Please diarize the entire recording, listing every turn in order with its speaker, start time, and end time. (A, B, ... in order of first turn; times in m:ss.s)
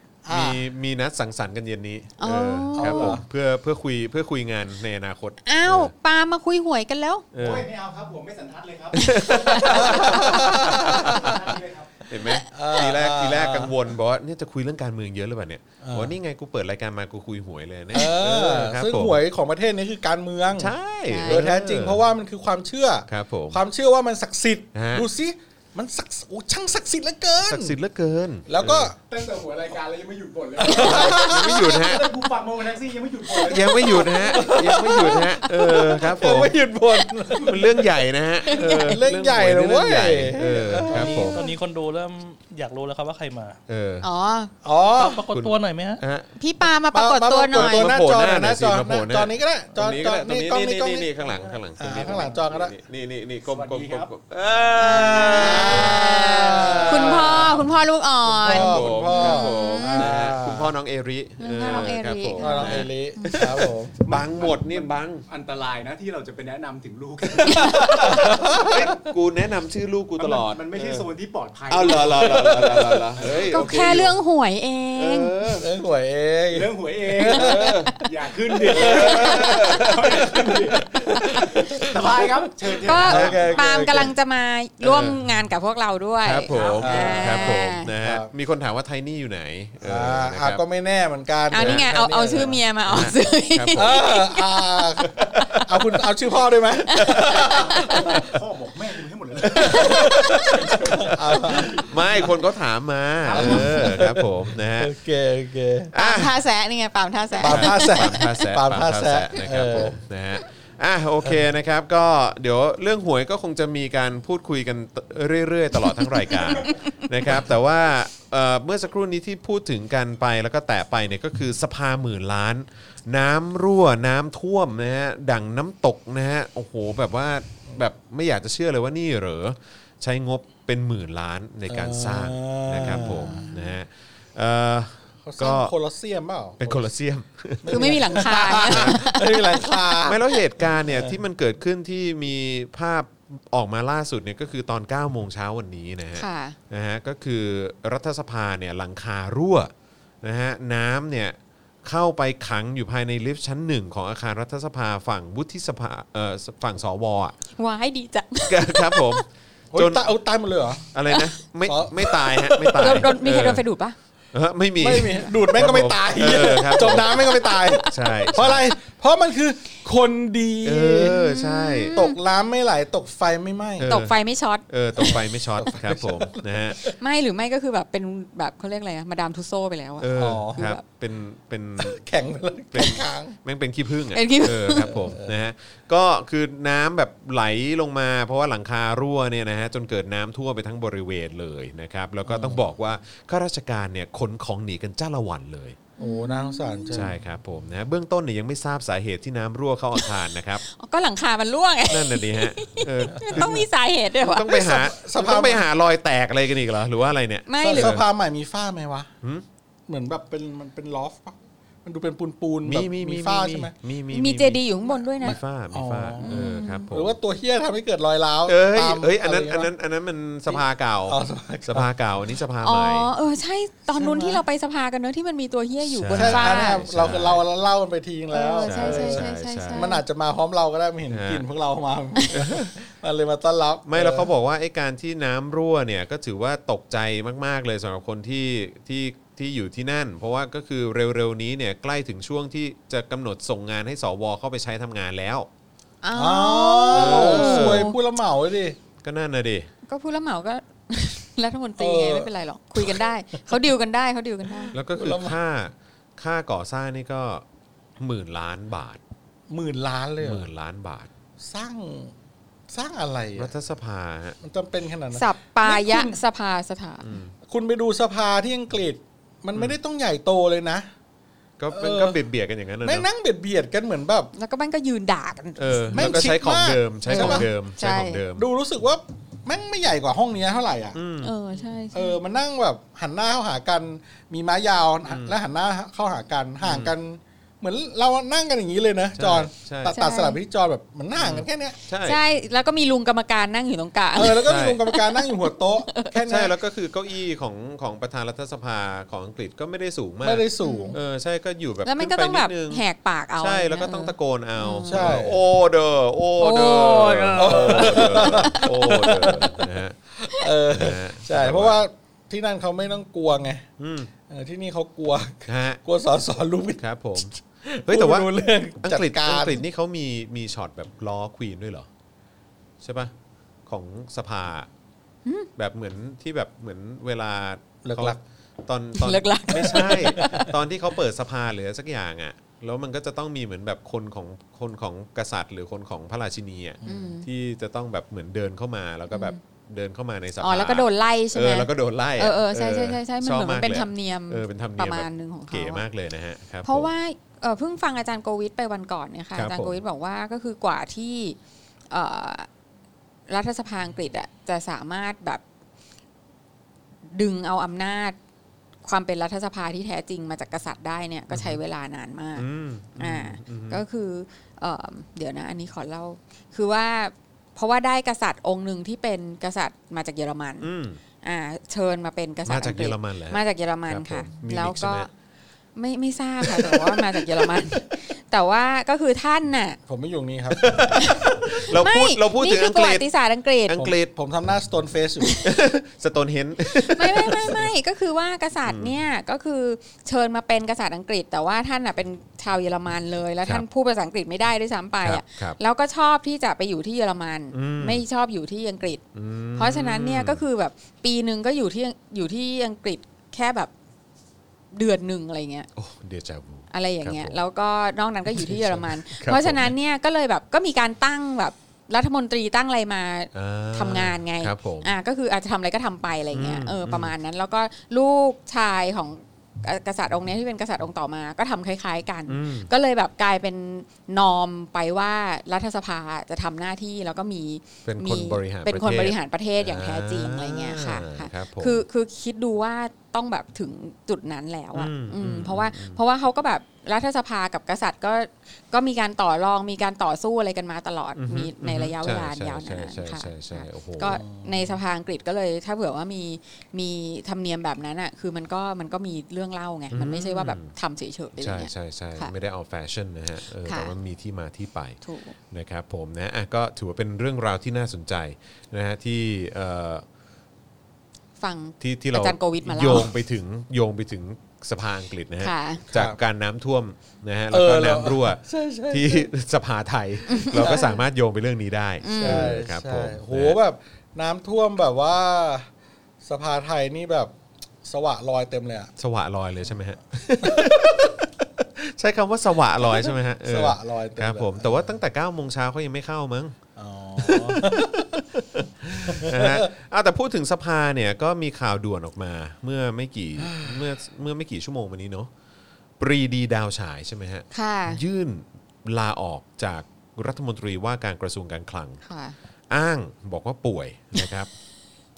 0:00.2-0:00.6 A
0:00.3-0:05.9 B
0:02.2-0:03.2 C
0:02.8-0:03.2 A
0:05.4-0:07.2 C
0:07.3-0:07.7 B
0:07.4-0:12.0 D
0:08.9-0:11.4 B
0:09.0-0:10.2 C
0:09.6-0:11.4 A
0:12.1-0:19.2 B
0:12.1-0:13.8 A
0:15.8-0:16.2 A
0:17.9-0:27.8 A
0:20.5-0:22.0 B
0:21.1-0:21.4 C
0:23.1-0:23.6 B
0:24.7-0:25.1 B
0:27.4-0:28.9 B
0:28.5-0:29.0 A
0:29.0-0:34.7 D
0:30.6-0:32.1 A
0:30.7-0:32.2 B
0:33.4-0:36.6 B
0:33.5-0:37.9 A
0:37.3-0:41.4 B
0:38.5-0:38.9 C
0:38.5-0:41.5 A
0:40.7-0:43.6 E
0:43.7-0:44.1 B
0:44.0-0:44.5 C
0:44.6-0:45.3 A
0:45.0-0:46.0 E
0:45.3-0:46.3 B
0:46.4-0:47.9 C
0:46.9-0:51.1 A
0:47.5-0:57.5 B
0:51.8-0:52.8 A
0:52.0-0:52.3 D
0:53.5-0:54.1 D
0:54.8-1:00.1 C
0:54.9-0:57.6 A
0:58.3-1:00.8 A
0:58.4-1:05.3 B
1:01.4-1:03.5 C
1:02.4-1:04.1 A
1:04.0-1:08.9 D
1:07.4-1:08.0 C
1:07.5-1:09.0 A
1:07.6-1:11.1 B
1:10.2-1:14.2 D
1:11.7-1:14.2 B
1:12.3-1:13.0 A
1:13.5-1:15.4 C
1:15.0-1:15.7 B
1:15.6-1:17.8 A
1:16.5-1:23.7 D
1:17.3-1:18.0 B
1:18.6-1:22.5 A
1:18.7-1:20.4 B
1:21.1-1:21.5 C
1:22.8-1:27.9 C
1:22.9-1:23.4 B
1:23.0-1:24.1 A
1:24.8-1:25.2 B
1:26.2-1:30.6 B
1:26.5-1:27.4 D
1:26.8-1:28.3 A
1:29.8-1:33.0 A
1:31.5-1:34.6 C
1:31.6-1:34.0 B
1:33.8-1:38.4 A
1:35.0-1:35.8 B
1:36.9-1:38.1 C
1:37.0-1:37.3 B
1:37.5-1:42.3 D
1:39.4-1:42.3 A
1:39.6-1:40.3 C
1:41.7-1:45.0 B
1:43.2-1:44.0 D
1:43.3-1:45.9 A
1:45.9-1:46.4 B
1:46.0-1:48.3 C
1:47.4-1:50.0 A
1:47.4-2:15.7 B
1:56.1-1:56.9 C
2:11.7-2:13.7 A
2:15.3-2:16.8 A
2:16.6-2:19.1 B
2:17.6-2:21.2 A
2:17.7-2:19.8 C
2:20.0-2:29.7 B
2:26.2-2:26.6 C
2:30.2-2:37.4 B
2:37.6-2:39.2 C
2:38.5-2:40.0 B
2:39.7-2:40.8 A
2:40.9-2:43.6 B
2:41.7-2:43.1 A
2:42.8-2:44.0 C
2:44.3-2:48.7 B
2:44.8-2:51.2 A
2:46.6-2:48.3 C
2:50.6-2:52.0 B
2:51.0-2:52.2 C
2:51.9-2:53.9 A
2:53.8-2:54.2 B
2:53.9-2:55.2 C
2:54.7-2:56.8 B
2:55.0-2:56.9 A
2:57.0-3:00.8 C
3:00.0-3:02.0 B
3:00.1-3:00.6 A
3:01.8-3:03.4 A
3:02.7-3:15.8 B
3:04.1-3:05.2 C
3:04.7-3:05.4 A
3:12.2-3:12.7 A
3:16.0-3:17.0 C
3:16.0-3:17.2 A
3:16.9-3:20.6 B
3:20.6-3:24.5 C
3:21.9-3:23.6 B
3:23.1-3:23.7 A
3:24.2-3:28.0 B
3:24.5-3:25.6 A
3:27.5-3:28.0 C
3:27.6-3:29.1 A
3:29.9-3:33.7 A
3:32.7-3:34.6 B
3:34.1-3:35.4 C
3:35.2-3:37.2 B
3:35.2-3:39.7 A
3:36.2-3:36.9 C
3:38.5-3:43.1 B
3:40.5-3:41.9 A
3:42.6-3:46.8 C
3:44.0-3:44.4 A
3:45.9-3:47.4 B
3:46.1-3:54.3 A
3:48.3-3:50.0 C
3:48.6-3:49.9 B
3:51.1-3:51.4 B
3:52.3-3:52.7 B
3:53.9-4:05.5 B
4:06.0-4:08.0 C
4:06.1-4:08.8 A
4:06.9-4:07.9 B
4:09.0-4:09.7 B
4:09.9-4:14.7 C
4:11.8-4:13.1 A
4:14.5-4:15.4 A
4:14.7-4:17.4 B
4:18.0-4:19.0 B
4:19.5-4:20.5 A
4:20.2-4:21.1 B
4:21.4-4:22.1 A
4:22.7-4:23.5 A
4:23.4-4:24.4 B
4:24.4-4:26.2 A
4:25.1-4:27.1 C
4:27.0-4:27.3 B
4:27.5-4:30.9 A
4:31.6-4:33.1 B
4:31.7-4:32.2 A
4:32.8-4:34.3 A
4:34.3-4:36.3 C
4:35.6-4:38.5 B
4:35.9-4:37.5 A
4:37.0-4:38.2 C
4:38.4-4:41.0 A
4:40.9-4:41.4 B
4:41.2-4:42.2 C
4:41.9-4:51.8 A
4:45.1-4:45.4 B
4:46.6-4:46.9 B
4:49.2-4:50.0 B
4:49.9-4:50.4 C
4:51.2-4:52.2 B
4:52.0-4:56.2 C
4:54.1-4:56.5 A
4:54.4-4:54.8 B
4:56.3-5:02.8 B
5:00.2-5:01.0 A
5:00.6-5:01.0 C
5:01.8-5:05.2 C
5:03.4-5:10.0 B
5:04.9-5:05.4 A
5:06.4-5:09.1 C
5:07.4-5:13.7 A
5:10.7-5:11.8 B
5:13.8-5:14.1 B
5:14.3-5:19.6 A
5:15.5-5:15.8 B
5:16.8-5:21.9 B
5:22.8-5:23.1 B
5:23.7-5:24.7 B
5:25.6-5:46.9 B
5:27.8-5:28.2 A
5:29.0-5:30.5 C
5:29.5-5:30.5 A
5:36.8-5:37.1 A
5:36.8-5:37.3 C
5:39.1-5:39.4 C
5:40.4-5:45.8 C
5:46.6-5:51.4 C
5:49.4-5:49.8 B
5:51.9-5:52.5 C
5:53.3-5:55.4 C
5:57.1-5:58.2 C
5:58.8-6:02.4 C
6:01.3-6:01.6 B
6:02.4-6:03.8 B
6:03.0-6:10.7 C
6:10.6-6:11.0 B
6:11.2-6:15.1 C
6:12.5-6:15.1 B
6:15.8-6:19.8 C
6:16.5-6:16.9 B
6:19.9-6:21.1 A
6:20.5-6:23.1 B
6:20.9-6:23.8 C
6:23.7-6:24.1 B
6:23.8-6:25.4 A
6:25.4-6:27.7 B
6:26.8-6:39.0 C
6:28.7-6:28.9 B
6:35.0-6:35.6 B
6:37.5-6:38.0 B
6:39.1-6:40.4 B
6:39.6-6:43.7 C
6:44.7-6:45.7 C
6:45.8-6:47.4 B
6:46.7-7:32.3 C
6:48.3-6:49.7 B
6:53.3-6:54.9 B
6:56.3-6:57.1 B
7:02.3-7:02.7 B
7:07.8-7:11.8 B
7:14.8-7:16.0 B
7:21.2-7:24.2 B
7:24.0-7:24.7 A
7:29.9-7:30.7 B
7:31.4-7:35.0 B
7:33.6-7:33.9 C
7:35.0-7:35.4 C
7:35.5-7:40.0 B
7:41.4-7:43.1 C
7:41.8-7:53.6 B
7:45.4-7:45.8 C
7:45.9-7:46.2 A
7:47.5-7:49.3 A
7:50.3-7:51.0 C
7:50.5-7:50.9 A
7:52.0-7:52.6 C
7:52.2-7:55.7 A
7:56.2-7:58.9 A
7:59.0-8:06.6 B
8:00.4-8:00.8 A
8:02.8-8:04.9 A
8:06.8-8:08.2 A
8:07.2-8:15.3 B
8:09.0-8:09.7 A
8:13.4-8:13.8 A
8:16.0-8:22.0 B
8:17.5-8:18.0 C
8:22.0-8:22.4 C
8:22.7-8:24.5 B